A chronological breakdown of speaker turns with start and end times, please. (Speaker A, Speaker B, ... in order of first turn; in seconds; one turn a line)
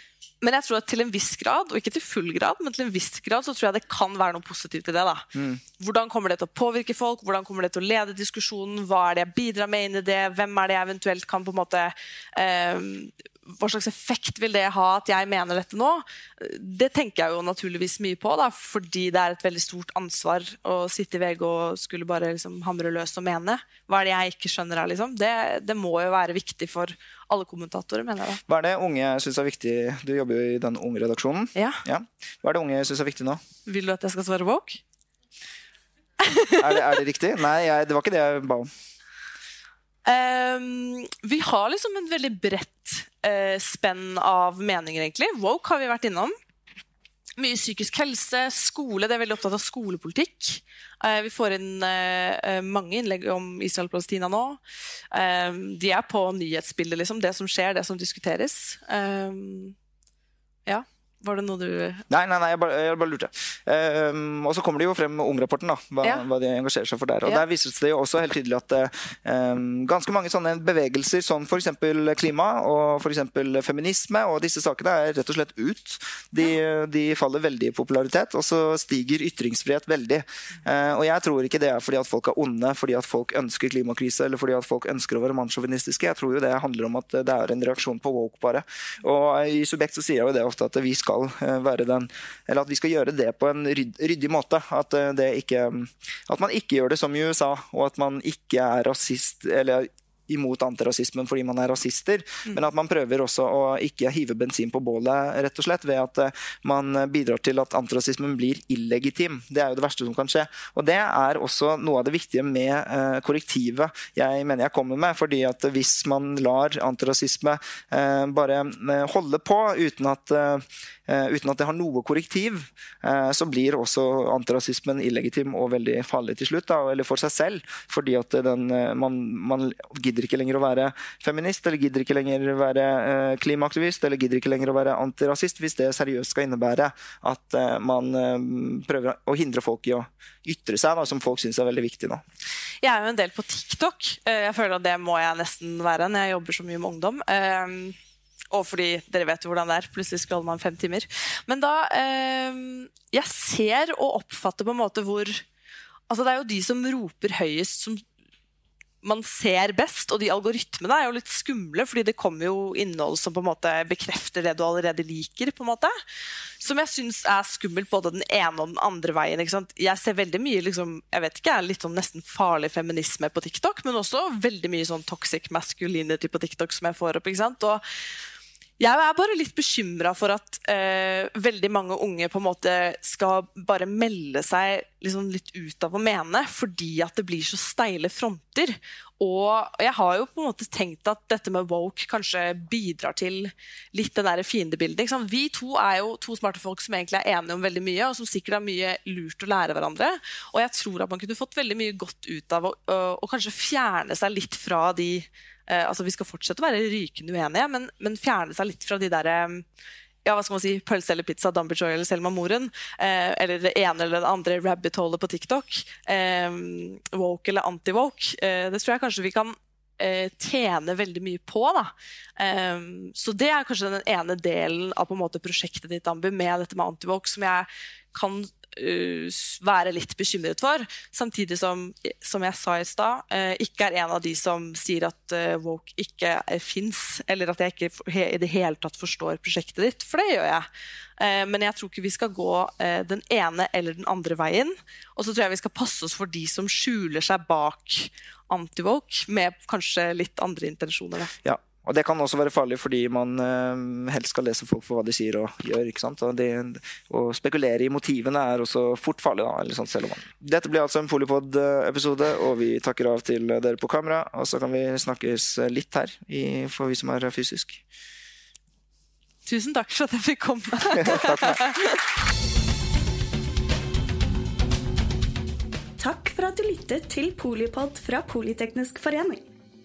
Speaker A: 0.4-28.4
Speaker B: 5.3-5.6
Speaker B: 28.5-33.4
Speaker A: 31.6-31.8
Speaker A: 33.6-34.8
Speaker A: 36.2-36.8
Speaker B: 36.5-38.7
Speaker A: 40.0-46.4
Speaker A: 47.4-59.8
Speaker A: 60.6-62.0
Speaker B: 62.1-142.2
Speaker A: 142.8-148.0
Speaker A: 148.5-155.4
Speaker A: 156.1-158.0
Speaker A: 159.0-165.9
Speaker A: 166.6-177.8
Speaker A: 178.8-209.7
Speaker A: 210.2-240.7
Speaker A: 241.2-251.3
Speaker B: 251.4-267.8
Speaker A: 269.4-272.0
Speaker B: 271.0-271.6
Speaker C: 276.0-279.5